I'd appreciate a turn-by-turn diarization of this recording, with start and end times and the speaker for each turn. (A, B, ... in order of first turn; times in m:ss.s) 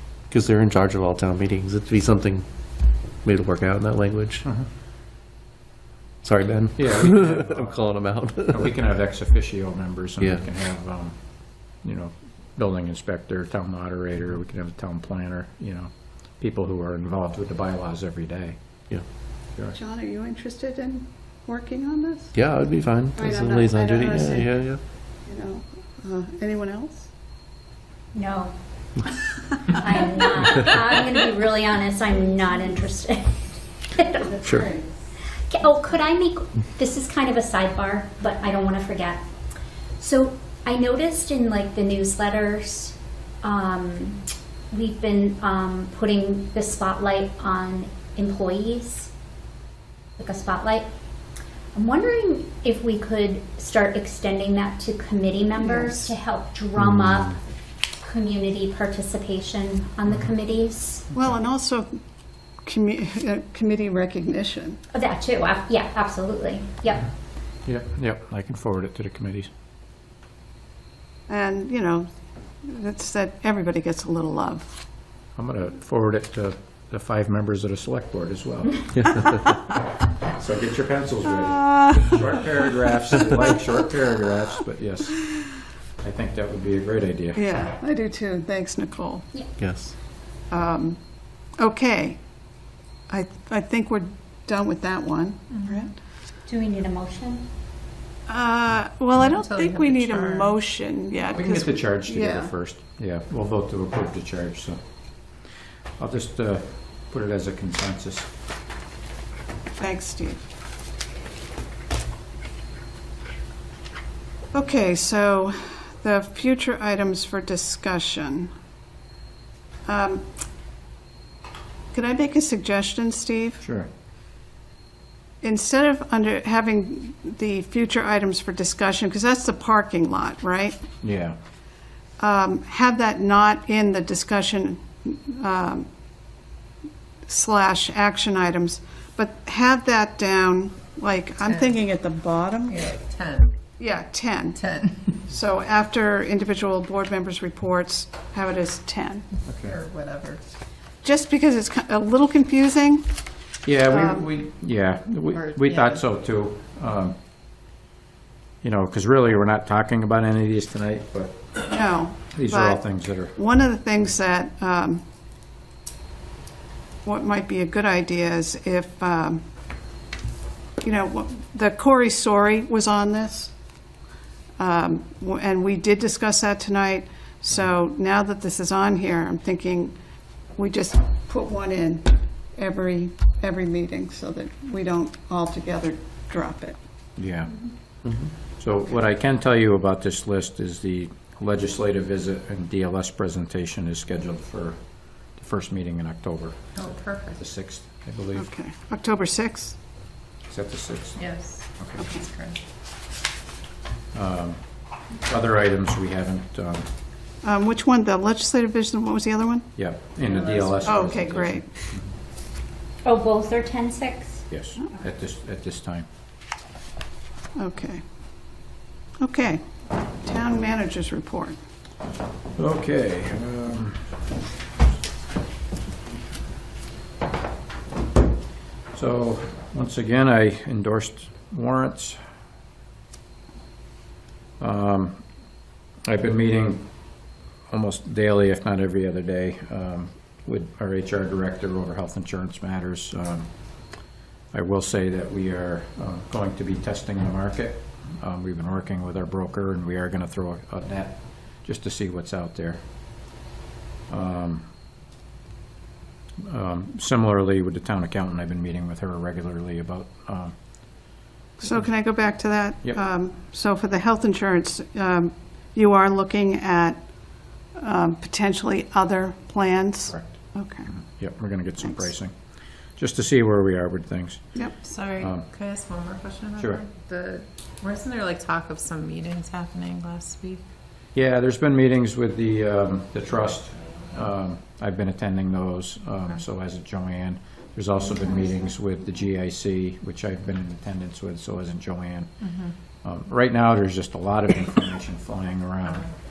0:00.3-0:04.4 A
0:06.2-0:08.7 A
0:06.8-0:18.8 B
0:10.2-0:10.5 A
0:19.8-0:22.4 C
0:22.3-0:24.8 A
0:23.1-0:24.7 C
0:25.3-0:27.1 C
0:28.1-0:28.5 D
0:29.7-0:34.7 D
0:34.4-0:34.7 A
0:35.5-0:39.2 D
0:40.0-0:49.1 D
0:50.2-0:50.9 D
0:51.7-0:57.4 D
0:55.6-0:56.1 C
0:58.0-1:01.1 D
1:01.1-1:02.0 C
1:02.6-1:04.8 C
1:04.9-1:07.1 D
1:07.7-1:09.5 B
1:11.3-1:12.1 C
1:12.6-1:14.8 C
1:15.4-1:19.2 B
1:18.9-1:19.3 A
1:20.3-1:25.4 B
1:21.5-1:22.2 C
1:26.0-1:27.5 B
1:27.4-1:29.3 C
1:29.6-1:30.0 A
1:30.5-1:31.0 C
1:31.6-1:32.2 C
1:33.1-1:36.0 C
1:35.5-1:35.9 E
1:36.4-1:37.4 D
1:38.3-1:42.5 C
1:39.4-1:40.6 E
1:41.3-1:45.4 B
1:46.0-1:48.3 B
1:49.8-1:50.4 C
1:54.5-1:58.5 C
1:59.9-2:00.2 C
2:01.9-2:03.6 C
2:03.6-2:03.9 B
2:05.4-2:10.8 C
2:11.0-2:11.4 B
2:12.2-2:15.9 C
2:17.3-2:22.8 C
2:21.4-2:21.8 E
2:22.7-2:23.6 E
2:23.8-2:24.6 C
2:24.6-2:25.1 E
2:25.3-2:29.3 C
2:29.5-2:29.8 B
2:29.6-2:30.4 E
2:31.0-2:33.1 C
2:33.6-2:37.2 B
2:33.9-2:34.3 C
2:35.3-2:36.0 E
2:38.6-2:41.7 B
2:41.7-2:42.8 C
2:42.3-2:43.4 B
2:43.3-2:45.0 C
2:47.0-2:49.4 C
2:50.8-2:53.5 C
2:54.6-2:59.9 C
3:00.6-3:06.8 C
3:07.2-3:07.7 B
3:08.0-3:08.3 A
3:08.6-3:18.5 B
3:16.8-3:17.4 E
3:18.4-3:19.8 C
3:20.5-3:22.0 B
3:21.2-3:22.6 E
3:24.1-3:26.9 B
3:27.4-3:29.7 C
3:29.8-3:32.1 B
3:30.4-3:30.9 E
3:30.8-3:31.7 C
3:33.0-3:34.4 D
3:34.5-3:36.1 B
3:37.6-3:38.0 C
3:39.2-3:41.6 C
3:42.6-3:44.1 B
3:48.9-3:52.2 B
3:54.6-3:55.2 B
3:56.0-3:57.2 B
3:57.7-4:03.5 B
4:04.5-4:12.8 B
4:14.1-4:14.7 B
4:16.4-4:20.6 B
4:21.6-4:30.9 C
4:30.1-4:35.5 B
4:34.8-4:40.6 E
4:36.6-4:36.8 B
4:41.2-4:52.3 B
4:53.0-4:56.1 B